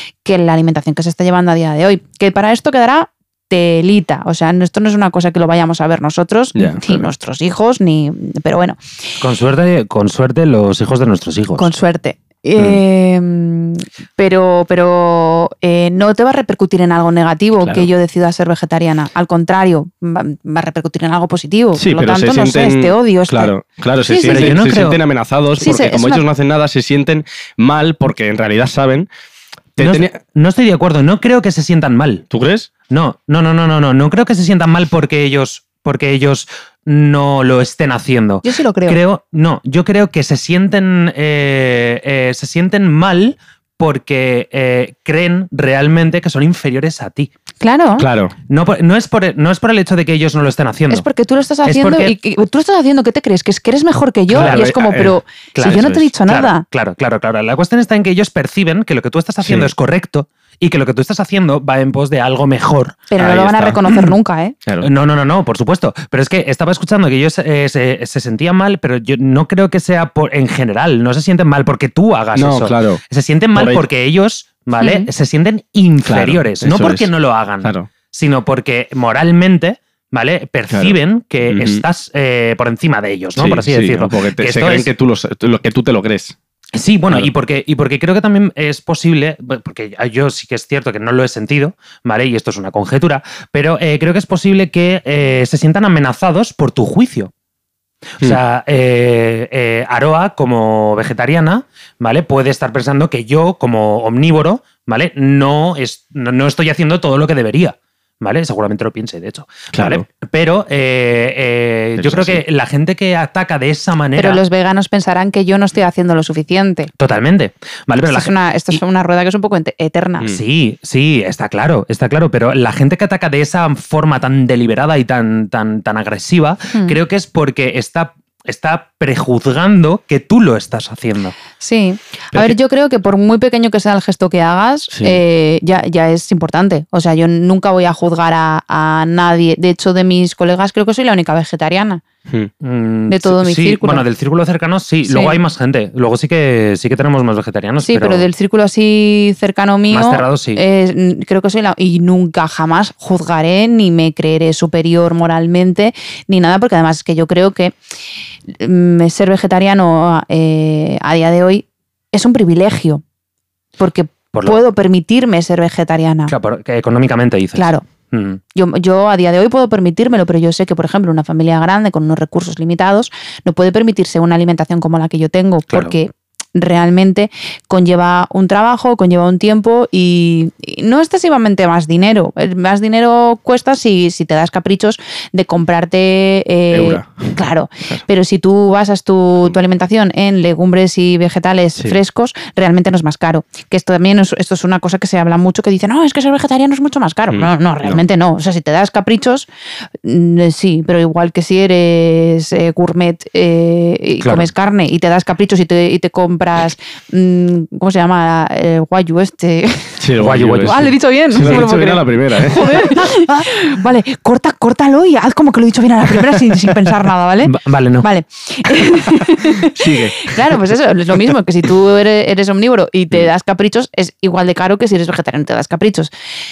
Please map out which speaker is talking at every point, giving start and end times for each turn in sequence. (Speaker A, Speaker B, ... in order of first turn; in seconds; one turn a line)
Speaker A: 0.2-8.8
Speaker B: 6.5-7.1
Speaker C: 9.2-11.7
Speaker A: 11.6-23.5
Speaker B: 21.8-29.1
Speaker A: 24.1-24.6
Speaker C: 24.2-25.0
Speaker A: 25.6-26.2
Speaker B: 29.8-30.2
Speaker C: 29.8-32.2
Speaker B: 32.3-32.7
Speaker C: 32.9-47.3
Speaker A: 38.4-39.0
Speaker A: 47.6-48.0
Speaker B: 48.0-48.3
Speaker C: 48.5-51.1
Speaker A: 50.9-56.6
Speaker C: 51.6-52.1
Speaker B: 54.3-56.1
Speaker C: 54.3-54.7
Speaker C: 55.5-63.3
Speaker B: 59.4-59.7
Speaker A: 63.1-64.5
Speaker B: 63.2-64.0
Speaker C: 64.8-84.9
Speaker B: 72.3-73.0
Speaker B: 73.5-73.8
Speaker A: 74.8-75.1
Speaker B: 76.0-77.1
Speaker B: 77.6-77.9
Speaker B: 80.7-81.0
Speaker B: 81.5-81.8
Speaker B: 83.4-86.3
Speaker C: 86.7-97.3
Speaker C: 98.2-114.4
Speaker B: 109.7-110.0
Speaker B: 112.0-112.4
Speaker A: 114.1-116.9
Speaker C: 117.0-118.3
Speaker A: 118.0-120.3
Speaker C: 120.3-131.3
Speaker A: 131.6-142.0
Speaker C: 142.6-148.3
Speaker A: 143.1-144.0
Speaker A: 145.1-145.4
Speaker A: 147.8-157.7
Speaker C: 149.9-150.6
Speaker A: 158.5-163.0
Speaker A: 163.8-166.3
Speaker C: 164.3-164.6
Speaker C: 166.3-168.4
Speaker A: 167.5-167.9
Speaker A: 168.5-199.5
Speaker B: 186.7-187.4
Speaker B: 197.3-198.0
Speaker A: 200.0-210.0
Speaker C: 204.2-204.5
Speaker B: 210.0-212.8
Speaker C: 210.2-210.9
Speaker A: 210.6-226.1
Speaker C: 217.4-218.1
Speaker B: 219.6-220.6